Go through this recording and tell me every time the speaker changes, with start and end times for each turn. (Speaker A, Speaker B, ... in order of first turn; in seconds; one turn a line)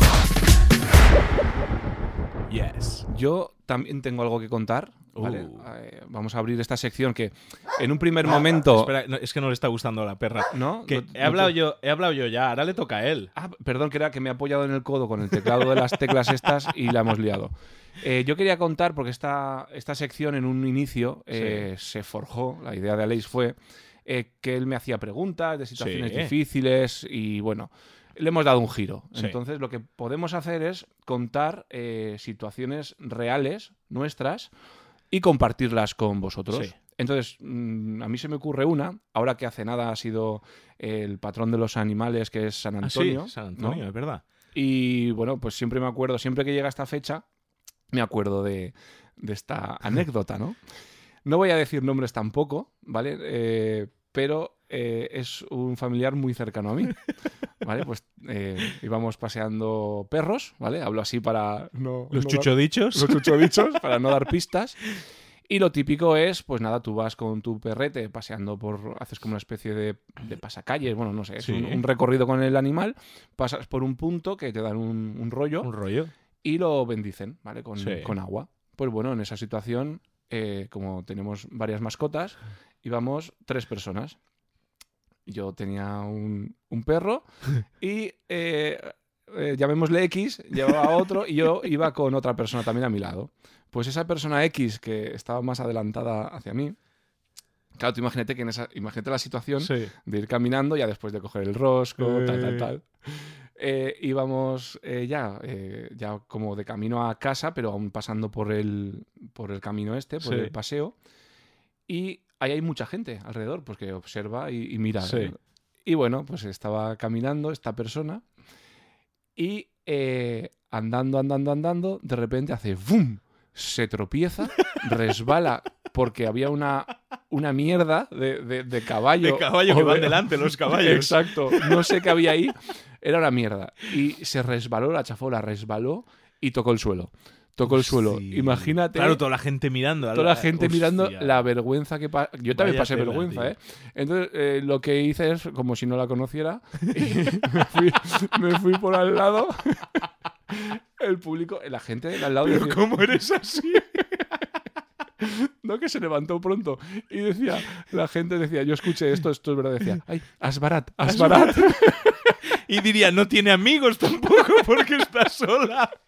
Speaker A: 2.5-3.1
Speaker B: 3.1-8.9
Speaker A: 5.2-5.7
Speaker A: 8.2-13.3
Speaker B: 10.5-11.5
Speaker B: 13.4-34.5
Speaker A: 21.3-21.6
Speaker A: 25.8-26.3
Speaker B: 35.1-43.8
Speaker A: 42.8-44.2
Speaker B: 44.5-47.2
Speaker B: 47.9-50.6
Speaker B: 51.3-57.1
Speaker B: 57.6-64.8
Speaker A: 62.1-63.4
Speaker B: 65.5-75.7
Speaker A: 71.4-71.8
Speaker A: 75.6-76.1
Speaker B: 76.4-84.2
Speaker A: 77.8-78.1
Speaker B: 85.3-96.8
Speaker B: 97.8-110.9
Speaker A: 99.6-99.9
Speaker A: 102.0-102.7
Speaker A: 110.2-110.5
Speaker B: 111.9-118.2
Speaker A: 115.0-115.3
Speaker B: 119.4-139.2
Speaker A: 129.2-132.1
Speaker A: 137.7-141.4
Speaker B: 140.1-152.8
Speaker A: 142.5-143.5
Speaker A: 152.4-154.1
Speaker B: 155.2-162.3
Speaker A: 161.1-161.8
Speaker A: 162.7-166.0